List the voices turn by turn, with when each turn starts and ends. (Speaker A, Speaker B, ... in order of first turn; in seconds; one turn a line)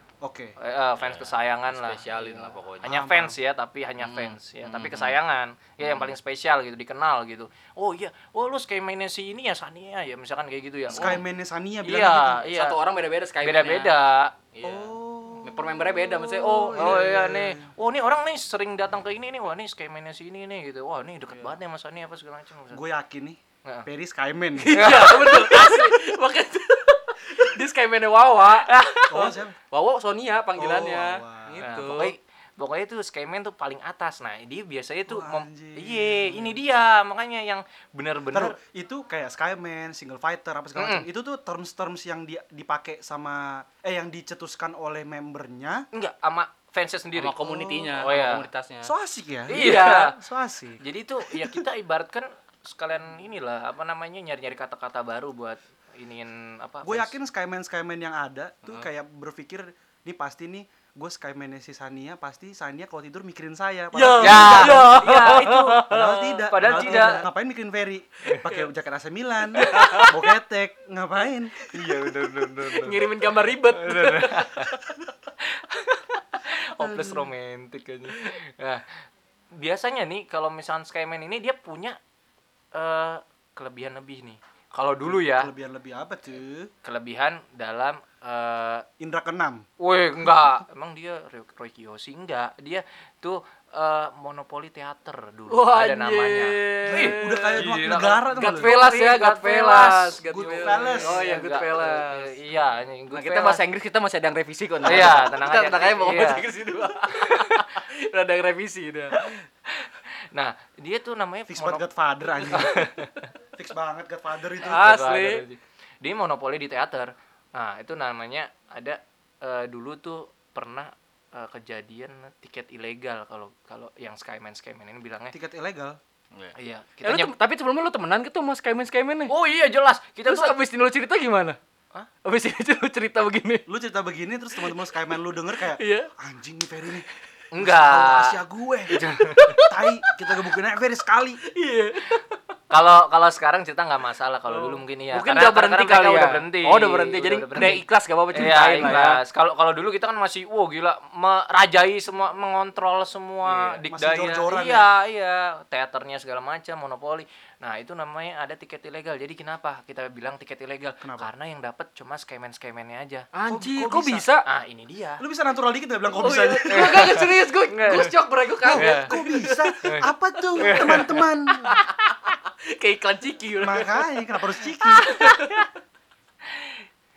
Speaker A: 0.2-0.6
Speaker B: 0.6-11.2
Speaker C: 1.0-3.0
Speaker A: 2.8-3.4
Speaker C: 4.0-5.2
Speaker C: 5.8-6.2
Speaker C: 10.9-11.2
Speaker A: 10.9-12.4
Speaker B: 11.8-12.8
Speaker C: 12.4-13.9
Speaker B: 13.4-14.3
Speaker C: 14.5-17.1
Speaker A: 14.6-17.7
Speaker B: 16.2-22.8
Speaker C: 21.3-21.5
Speaker A: 22.7-24.8
Speaker C: 24.6-32.1
Speaker B: 24.7-25.9
Speaker B: 28.6-29.4
Speaker A: 29.1-29.6
Speaker A: 30.6-31.6
Speaker B: 31.6-38.6
Speaker A: 35.1-36.6
Speaker A: 38.3-45.9
Speaker B: 40.8-41.0
Speaker B: 45.9-47.4
Speaker C: 47.1-48.9
Speaker A: 47.4-48.0
Speaker B: 47.9-48.5
Speaker A: 48.8-51.6
Speaker C: 49.5-50.1
Speaker B: 49.5-50.2
Speaker B: 50.8-57.1
Speaker A: 56.8-65.0
Speaker C: 63.9-67.2
Speaker B: 64.2-67.2
Speaker A: 65.8-71.7
Speaker C: 69.6-70.2
Speaker B: 69.6-70.1
Speaker B: 71.7-73.1
Speaker C: 72.1-74.8
Speaker B: 73.7-74.7
Speaker B: 75.4-79.0
Speaker A: 76.8-77.3
Speaker B: 79.5-82.0
Speaker B: 82.7-85.5
Speaker A: 85.0-86.7
Speaker B: 86.8-88.9
Speaker A: 89.0-89.6
Speaker B: 89.8-103.6
Speaker C: 95.5-97.7
Speaker A: 96.8-98.7
Speaker C: 98.3-102.4
Speaker A: 100.2-101.2
Speaker C: 103.1-109.3
Speaker B: 104.8-106.5
Speaker B: 107.1-107.7
Speaker B: 109.1-111.8
Speaker A: 111.5-112.8
Speaker B: 112.5-113.3
Speaker A: 113.6-114.9
Speaker C: 114.6-115.4
Speaker B: 114.6-125.3
Speaker A: 125.3-126.0
Speaker C: 126.3-129.3
Speaker B: 126.6-127.3
Speaker B: 129.3-130.6
Speaker C: 130.2-131.6
Speaker C: 132.2-133.6
Speaker A: 133.7-137.1
Speaker C: 134.6-134.9
Speaker C: 135.6-136.1
Speaker B: 137.5-138.4
Speaker A: 137.6-141.4
Speaker B: 138.9-139.6
Speaker C: 139.4-140.1
Speaker C: 141.5-142.4
Speaker B: 142.7-163.3
Speaker C: 144.5-149.2
Speaker C: 153.4-153.8
Speaker A: 153.9-154.9
Speaker A: 161.0-161.3
Speaker C: 163.3-164.4
Speaker A: 163.5-164.3
Speaker B: 164.4-165.2
Speaker A: 165.2-167.2
Speaker C: 166.2-169.7
Speaker B: 166.7-168.2
Speaker A: 168.6-171.8
Speaker B: 168.7-169.2
Speaker B: 170.6-171.2
Speaker C: 170.6-174.3
Speaker A: 173.6-175.2
Speaker C: 174.9-175.7
Speaker B: 175.0-175.7
Speaker B: 176.5-176.8